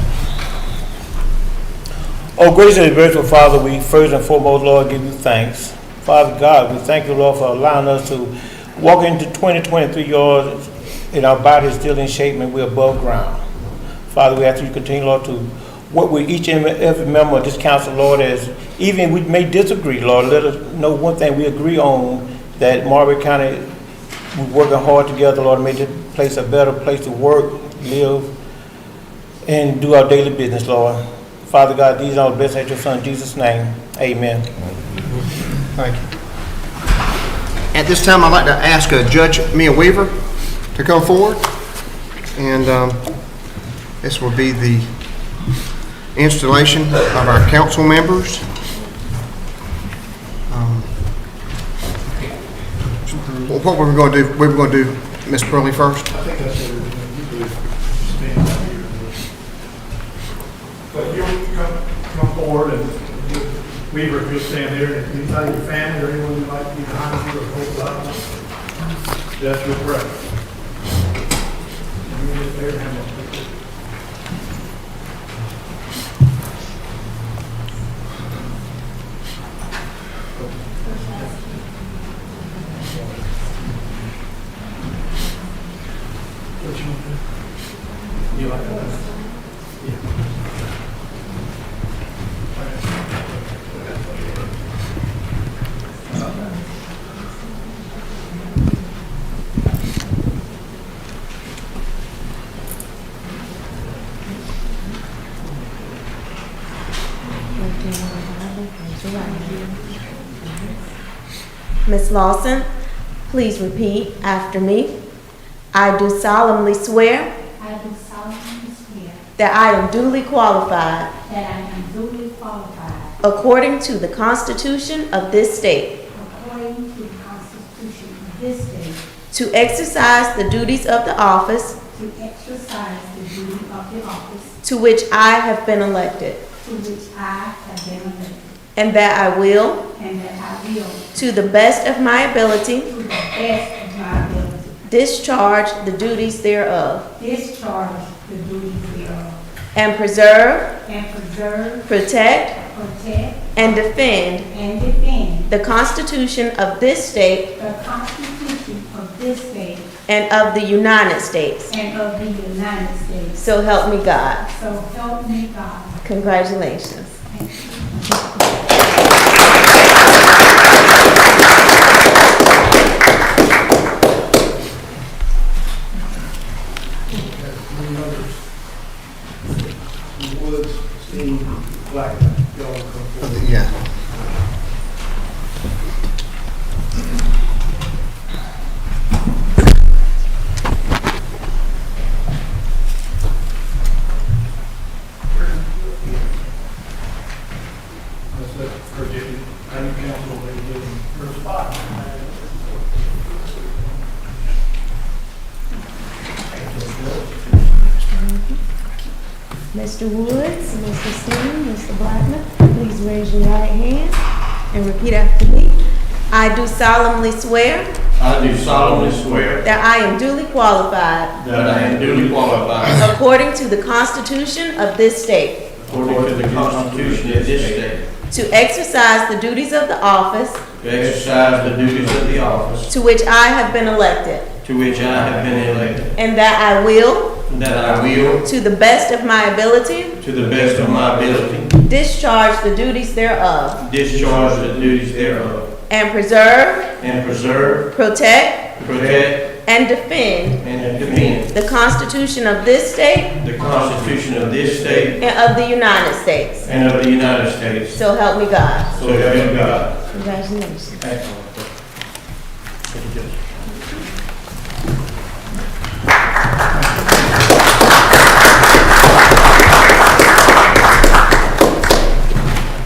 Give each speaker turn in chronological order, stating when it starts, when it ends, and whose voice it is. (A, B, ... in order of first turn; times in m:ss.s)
0:02.4-0:13.4 A
0:14.1-0:23.7 A
0:24.3-0:28.3 A
0:29.4-0:34.5 A
0:35.7-0:36.1 B
0:37.7-0:41.7 B
0:42.3-0:45.3 B
0:46.1-0:48.5 B
0:50.5-0:51.2 B
0:53.4-0:56.1 B
0:56.1-0:59.3 C
1:00.9-1:08.3 C
1:09.3-1:10.2 C
1:12.0-1:13.5 C
1:20.8-1:21.9 D
1:26.6-1:27.2 C
1:47.6-1:49.8 E
1:49.2-1:50.0 D
1:51.8-1:52.7 E
1:53.3-1:55.0 E
1:55.7-1:57.3 E
1:57.6-1:59.2 D
1:59.4-2:01.1 E
2:01.2-2:03.1 D
2:03.2-2:06.0 E
2:06.1-2:09.0 D
2:09.3-2:11.8 E
2:11.9-2:14.6 D
2:14.6-2:16.4 E
2:16.6-2:18.5 D
2:18.8-2:19.8 E
2:19.9-2:21.0 D
2:21.1-2:22.9 E
2:22.8-2:24.8 D
2:24.8-2:27.0 E
2:27.2-2:29.4 D
2:29.7-2:30.7 E
2:30.8-2:31.9 D
2:31.9-2:32.6 E
2:32.6-2:33.5 D
2:33.5-2:34.5 E
2:34.5-2:35.5 D
2:35.5-2:37.5 E
2:37.5-2:39.8 D
2:40.1-2:41.7 E
2:41.7-2:43.4 D
2:43.4-2:44.4 E
2:44.4-2:46.0 D
2:46.0-2:47.1 E
2:47.3-2:48.2 D
3:03.2-3:03.9 B
3:18.3-3:24.2 C
3:27.4-3:28.6 E
3:29.7-3:34.2 E
3:34.7-3:35.8 E
3:36.3-3:37.9 E
3:38.2-3:39.6 F
3:39.6-3:41.4 E
3:41.4-3:42.4 A
3:41.4-3:43.1 F
3:42.9-3:45.7 E
3:45.8-3:47.9 A
3:45.8-3:48.0 F
3:48.3-3:50.6 E
3:50.8-3:52.9 F
3:52.9-3:54.5 E
3:54.6-3:56.1 F
3:55.1-3:56.0 A
3:56.1-3:57.4 E
3:57.5-3:58.4 F
3:58.3-4:00.2 E
4:00.2-4:01.7 F
4:00.5-4:01.6 A
4:01.8-4:03.8 E
4:03.8-4:05.7 F
4:05.9-4:06.9 E
4:07.0-4:07.8 F
4:07.9-4:08.7 E
4:08.8-4:09.4 F
4:08.9-4:09.2 A
4:09.6-4:10.6 E
4:10.6-4:11.5 F
4:10.8-4:11.1 A
4:11.4-4:13.4 E
4:13.4-4:15.2 F
4:13.7-4:15.1 A
4:15.2-4:16.7 E
4:16.6-4:18.0 F
4:17.9-4:19.0 E
4:18.9-4:19.9 F
4:19.0-4:19.9 A
4:20.1-4:21.0 E
4:21.0-4:21.5 A
4:22.9-4:23.3 A